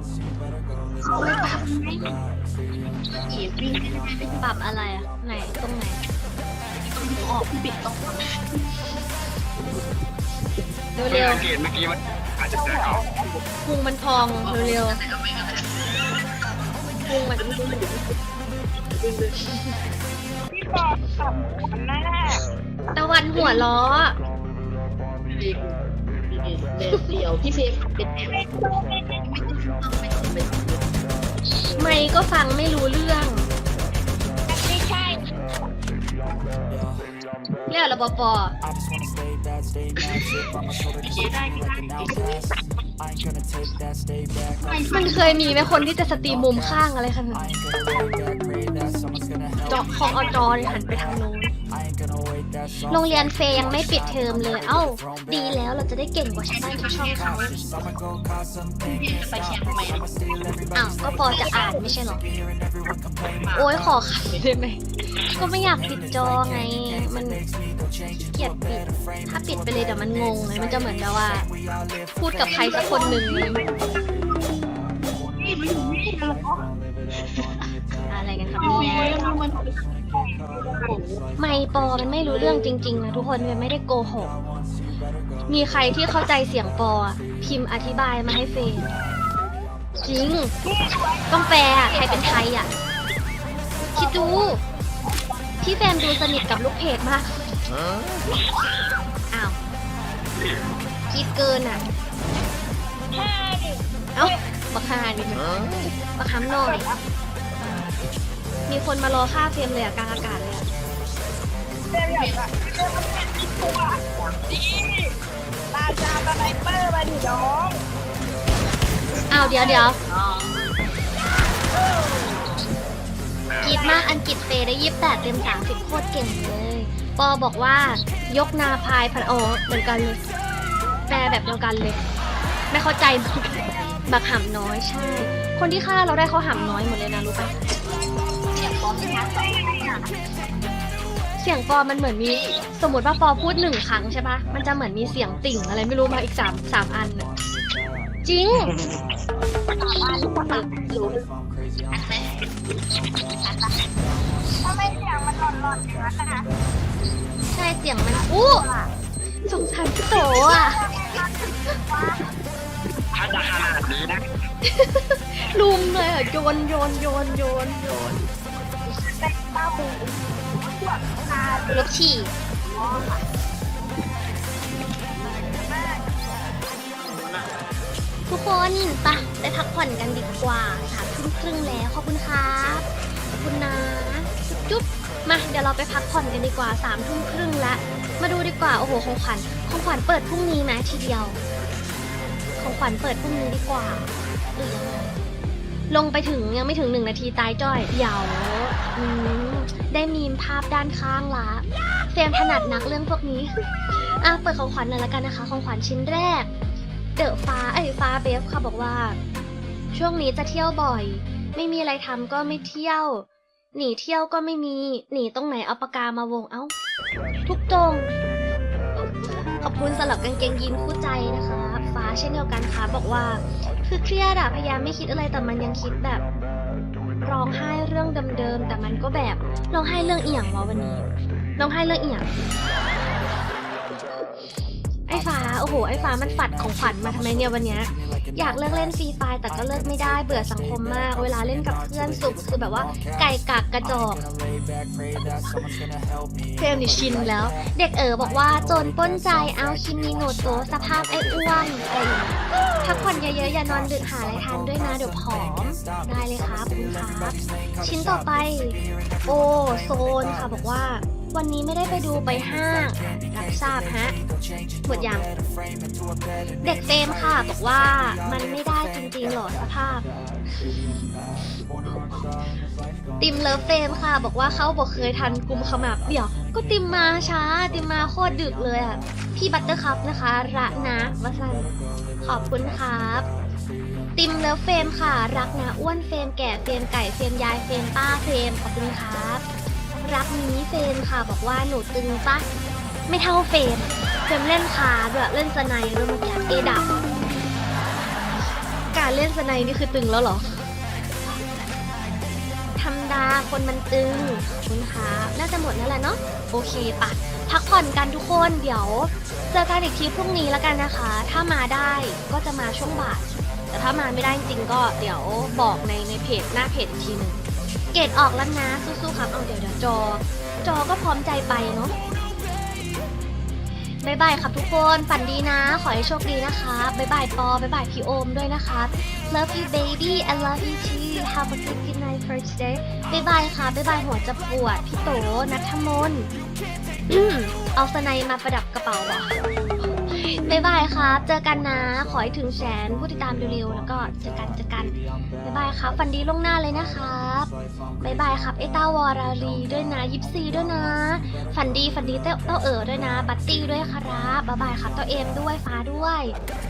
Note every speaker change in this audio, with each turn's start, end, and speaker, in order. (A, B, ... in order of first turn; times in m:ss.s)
0:01.1-0:02.1 A
0:03.2-0:04.4 A
0:04.4-0:06.0 B
0:06.8-0:08.8 A
0:11.0-0:11.4 B
0:11.1-0:13.0 C
0:12.5-0:13.4 D
0:13.6-0:15.0 B
0:14.4-0:16.2 A
0:17.1-0:17.6 B
0:17.3-0:18.2 A
0:19.0-0:19.4 A
0:20.5-0:22.4 D
0:22.9-0:24.2 B
0:23.4-0:23.6 A
0:25.2-0:28.5 A
0:28.3-0:29.6 D
0:29.2-0:31.0 A
0:31.8-0:33.5 B
0:34.5-0:35.3 D
0:37.7-0:38.6 B
0:40.0-0:42.4 A
0:44.6-0:45.7 A
0:44.9-0:47.5 B
0:49.7-0:51.5 B
0:52.9-0:57.6 B
0:56.4-0:57.8 A
0:58.8-1:00.2 A
1:00.7-1:02.2 B
1:01.3-1:01.9 D
1:03.3-1:04.4 A
1:03.6-1:07.4 B
1:08.2-1:11.5 B
1:12.2-1:13.6 B
1:12.5-1:14.1 D
1:12.5-1:13.9 A
1:15.4-1:17.5 A
1:18.1-1:19.2 B
1:18.6-1:19.8 A
1:18.6-1:19.4 D
1:20.1-1:20.9 D
1:20.7-1:21.2 A
1:21.4-1:24.3 B
1:22.3-1:22.7 A
1:25.5-1:28.9 B
1:30.0-1:30.5 B
1:30.6-1:32.4 D
1:31.3-1:32.7 B
1:33.8-1:34.6 D
1:34.0-1:34.6 B
1:35.6-1:37.6 B
1:39.3-1:39.6 B
1:41.1-1:41.8 B
1:43.1-1:44.4 D
1:44.2-1:46.8 B
1:46.5-1:47.0 D
1:48.7-1:50.6 B
1:51.9-1:55.2 D
1:52.1-1:52.6 A
1:54.1-1:54.5 A
1:55.7-1:57.8 D
1:59.3-2:00.0 B
1:59.4-1:59.9 D
1:59.4-2:00.7 A
2:01.8-2:02.4 D
2:03.6-2:10.2 B
2:03.7-2:04.0 D
2:11.1-2:12.0 B
2:12.7-2:17.6 B
2:18.5-2:20.0 A
2:19.4-2:20.0 D
2:21.4-2:27.3 B
2:22.2-2:22.6 A
2:28.2-2:28.7 B
2:29.7-2:30.7 D
2:30.1-2:31.3 A
2:31.9-2:32.4 A
2:33.4-2:33.8 A
2:34.6-2:36.5 D
2:37.5-2:38.7 B
2:38.1-2:38.9 D
2:39.5-2:40.8 B
2:40.1-2:42.3 D
2:43.1-2:44.2 C
2:44.6-2:48.2 B
2:48.9-2:51.9 D
2:51.7-2:52.3 B
2:52.7-2:53.2 D
2:55.2-2:55.7 A
2:55.5-2:56.3 D
2:56.7-2:57.5 A
2:58.3-3:11.4 B
3:12.6-3:15.2 B
3:15.9-3:26.5 B
3:27.2-3:29.2 B
3:29.9-3:36.7 B
3:37.5-3:38.1 B
3:39.0-3:46.2 B
3:47.2-3:52.3 B
3:55.1-4:04.3 B
4:06.6-4:24.2 B
4:24.9-4:25.3 B
4:26.6-4:31.0 B
4:33.2-4:41.7 B
4:42.2-4:43.3 B
4:44.2-4:49.4 B
4:50.0-4:52.4 B
4:53.1-4:57.0 B
4:58.9-5:00.7 B
5:02.8-5:17.4 B
5:17.9-5:22.0 B
5:24.0-5:36.3 B
5:37.1-5:56.4 B